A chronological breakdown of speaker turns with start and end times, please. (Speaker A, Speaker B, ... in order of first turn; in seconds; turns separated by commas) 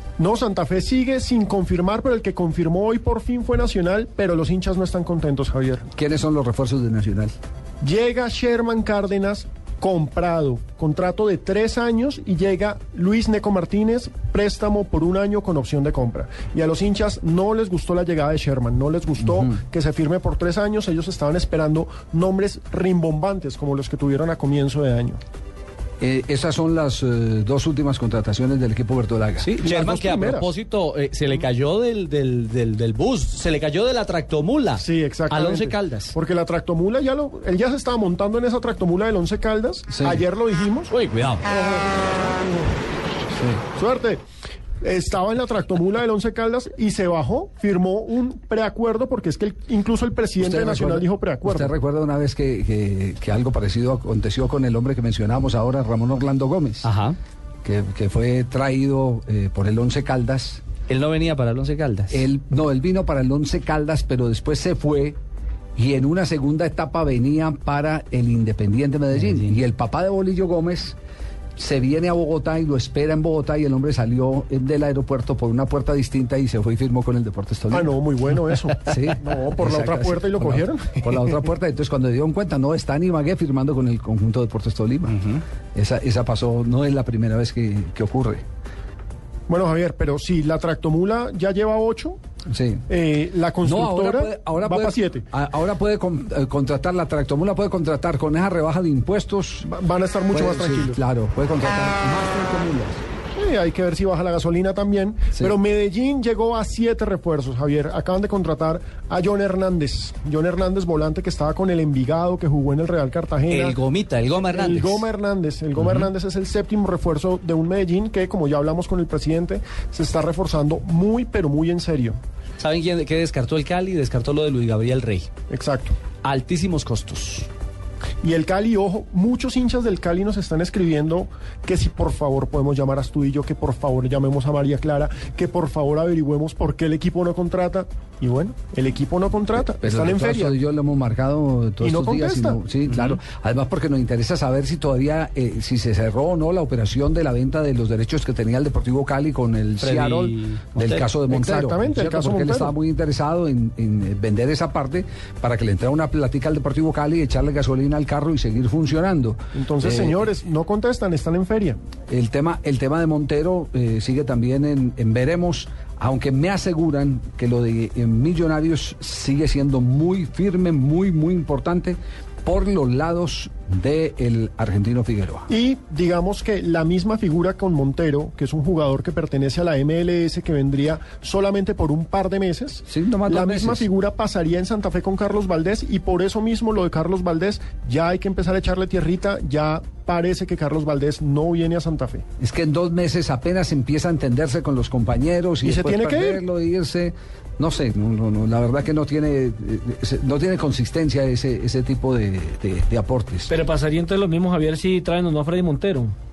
Speaker A: 0.2-5.9, Speaker B: 6.0-7.3, Speaker A: 7.8-25.2, Speaker B: 26.0-29.5, Speaker C: 29.4-36.1, Speaker A: 29.6-30.5, Speaker A: 34.8-40.9, Speaker B: 39.9-40.2, Speaker C: 40.9-41.5, Speaker A: 41.5-42.8, Speaker A: 43.6-44.2, Speaker A: 44.8-51.7, Speaker B: 50.4-56.9, Speaker C: 56.8-57.2, Speaker B: 57.6-60.6, Speaker C: 60.9-62.2, Speaker B: 62.1-65.2, Speaker B: 65.8-71.0, Speaker B: 71.6-77.9, Speaker A: 77.7-81.4, Speaker B: 78.8-88.4, Speaker A: 89.5-92.2, Speaker B: 92.5-92.8, Speaker A: 92.9-95.2, Speaker B: 93.6-99.7, Speaker A: 99.7-101.0, Speaker B: 100.3-103.0, Speaker A: 103.3-113.8, Speaker C: 113.5-115.1, Speaker A: 114.5-122.2, Speaker C: 122.6-125.3, Speaker A: 125.5-126.0, Speaker C: 126.2-127.5, Speaker A: 128.2-140.6, Speaker B: 139.7-160.2, Speaker A: 141.8-142.6, Speaker C: 149.8-151.1, Speaker A: 151.3-152.8, Speaker A: 159.5-161.8, Speaker B: 162.1-175.5, Speaker A: 175.5-192.2, Speaker B: 182.9-183.9, Speaker B: 192.4-203.5, Speaker A: 195.6-196.4, Speaker D: 203.5-206.1